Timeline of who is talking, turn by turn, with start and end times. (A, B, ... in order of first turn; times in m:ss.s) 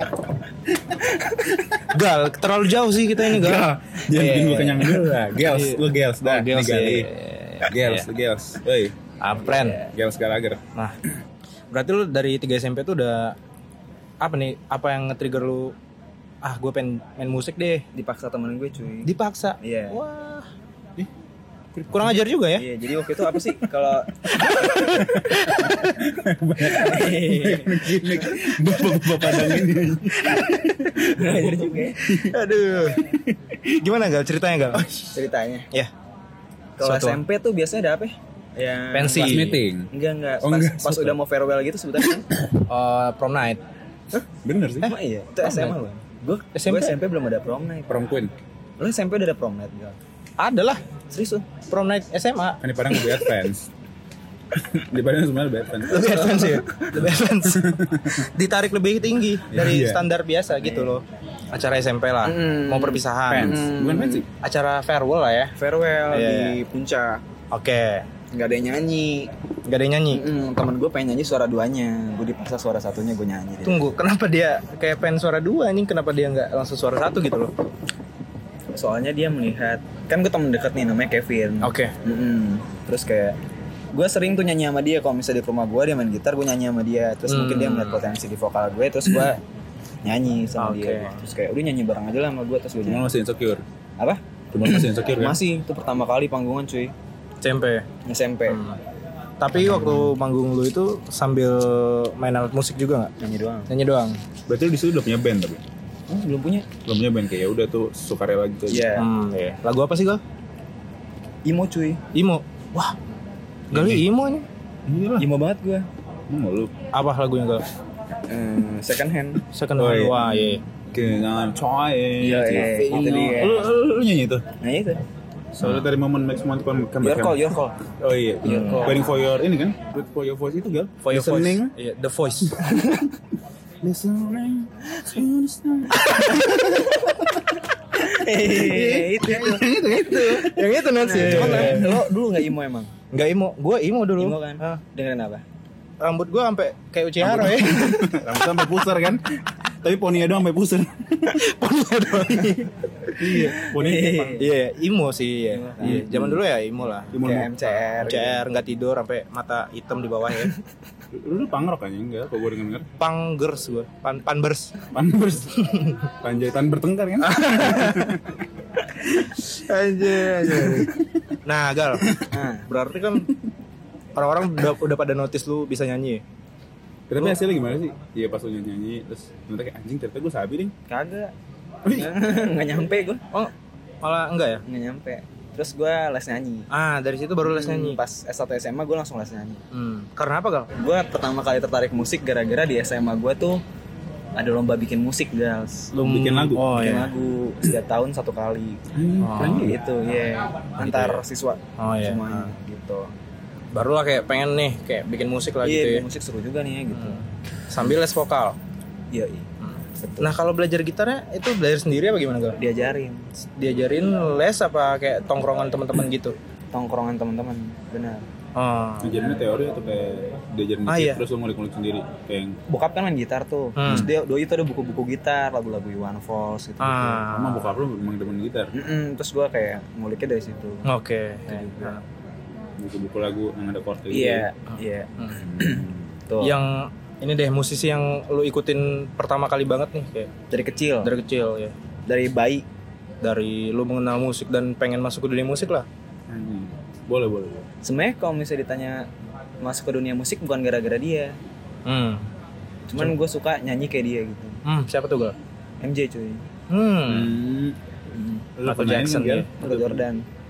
0:01.9-0:03.7 A
0:03.2-0:07.1 B
0:04.1-0:05.0 C
0:05.4-0:08.1 A
0:07.7-0:09.0 B
0:09.2-0:09.8 A
0:09.5-0:09.9 C
0:09.9-0:10.6 B
0:11.7-0:13.4 A
0:14.2-0:15.8 A
0:16.4-0:17.8 A
0:17.9-0:20.0 C
0:19.1-0:20.5 A
0:21.8-0:22.6 A
0:22.6-0:24.2 C
0:24.2-0:26.1 A
0:24.9-0:32.2 B
0:26.6-0:28.0 C
0:28.6-0:29.6 A
0:30.8-0:32.3 C
0:32.1-0:33.1 A
0:33.1-0:33.5 B
0:33.6-0:34.9 A
0:35.0-0:35.7 C
0:36.8-0:42.3 C
0:36.8-0:37.2 A
0:38.9-0:39.6 A
0:39.2-0:41.2 B
0:42.5-0:43.6 A
0:44.4-0:44.9 B
0:44.8-0:45.8 A
0:44.8-0:48.0 C
0:46.6-0:47.0 A
0:47.9-0:48.3 B
0:48.8-0:50.0 C
0:50.4-0:50.8 A
0:51.1-0:51.5 C
0:51.7-0:52.6 A
0:52.6-0:53.7 B
0:54.5-0:56.3 B
0:55.9-1:03.7 A
0:55.9-0:56.9 C
0:57.0-0:58.2 B
0:59.5-1:00.1 B
1:00.6-1:01.0 C
1:02.2-1:04.2 C
1:03.3-1:04.3 B
1:04.4-1:05.5 A
1:05.6-1:07.2 C
1:06.1-1:06.6 A
1:07.5-1:08.1 A
1:08.3-1:09.3 C
1:09.7-1:10.3 A
1:10.1-1:13.8 C
1:13.6-1:17.5 A
1:18.7-1:23.4 C
1:21.6-1:21.9 A
1:23.9-1:29.4 C
1:27.3-1:28.1 A
1:30.0-1:33.1 C
1:30.6-1:31.2 A
1:32.8-1:33.6 B
1:34.0-1:36.9 C
1:34.5-1:35.4 B
1:37.4-1:37.9 A
1:38.0-1:38.6 C
1:38.5-1:38.8 A
1:39.4-1:43.1 A
1:39.6-1:40.0 B
1:43.2-1:43.7 C
1:43.7-1:44.2 A
1:44.5-1:45.6 B
1:46.1-1:46.7 C
1:46.9-1:48.9 B
1:48.7-1:49.1 C
1:49.0-1:50.2 A
1:51.4-1:52.0 C
1:52.1-1:53.0 A
1:53.7-1:54.5 A
1:53.7-1:54.1 B
1:54.9-1:55.3 B
1:55.2-1:55.9 C
1:56.3-1:56.8 B
1:56.9-1:57.6 A
1:58.3-1:59.4 C
1:59.5-2:00.6 A
1:59.8-2:04.5 B
2:02.2-2:03.7 C
2:04.6-2:05.0 C
2:05.5-2:11.7 B
2:07.0-2:07.8 C
2:08.4-2:09.1 A
2:08.5-2:09.1 C
2:11.0-2:13.0 A
2:13.8-2:17.3 B
2:18.0-2:20.5 C
2:18.4-2:22.1 B
2:20.1-2:22.0 A
2:21.0-2:22.9 C
2:23.1-2:24.8 A
2:24.2-2:25.4 C
2:26.0-2:28.2 A
2:27.2-2:29.2 B
2:29.8-2:31.5 B
2:31.3-2:33.6 A
2:32.2-2:32.6 B
2:33.2-2:34.5 B
2:33.4-2:34.5 C
2:34.4-2:37.2 A
2:35.5-2:36.1 C
2:35.8-2:36.4 B
2:37.1-2:38.4 C
2:37.1-2:37.7 B
2:38.0-2:40.6 A
2:41.1-2:42.9 B
2:43.0-2:44.7 A
2:44.9-2:48.3 B
2:45.6-2:46.1 A
2:47.2-2:48.2 A
2:49.2-2:53.3 A
2:50.4-2:51.0 B
2:52.3-2:52.7 C
2:54.2-2:56.2 A
2:57.1-3:00.7 B
3:00.9-3:01.3 C
3:01.8-3:02.2 B
3:01.9-3:03.2 C
3:03.3-3:04.6 A
3:04.7-3:06.7 C
3:06.7-3:08.0 A
3:07.4-3:09.6 C
3:09.7-3:10.7 A
3:10.8-3:13.6 C
3:14.4-3:15.9 C
3:15.9-3:17.1 A
3:16.0-3:16.7 B
3:16.6-3:18.8 C
3:18.9-3:19.8 B
3:19.2-3:19.7 A
3:19.5-3:23.1 C
3:20.8-3:21.2 A
3:21.8-3:22.5 A
3:23.7-3:26.1 A
3:25.6-3:27.2 C
3:26.9-3:28.6 A
3:29.1-3:30.3 C
3:29.6-3:32.6 A
3:32.6-3:33.3 C
3:33.5-3:36.3 A
3:36.7-3:38.3 C
3:38.6-3:39.1 A
3:39.0-3:42.6 B
3:40.9-3:41.2 A
3:42.7-3:47.2 C
3:43.8-3:44.1 A
3:46.8-3:47.7 A
3:47.3-3:48.7 B
3:48.7-3:50.9 C
3:50.9-3:52.0 A
3:51.5-3:52.0 C
3:52.8-3:54.5 B
3:54.1-3:56.6 C
3:55.3-3:56.1 B
3:56.4-4:00.3 A
4:00.5-4:01.1 C
4:01.0-4:01.7 A
4:02.1-4:02.6 C
4:03.2-4:05.9 A
4:06.3-4:07.7 B
4:07.8-4:09.1 C
4:09.6-4:11.4 C
4:11.8-4:12.3 A
4:12.9-4:14.6 C
4:14.6-4:15.4 A
4:15.8-4:16.4 C
4:16.7-4:17.3 A
4:17.1-4:17.8 B
4:18.1-4:18.5 C
4:18.6-4:20.0 B
4:18.7-4:19.5 A
4:19.5-4:20.3 C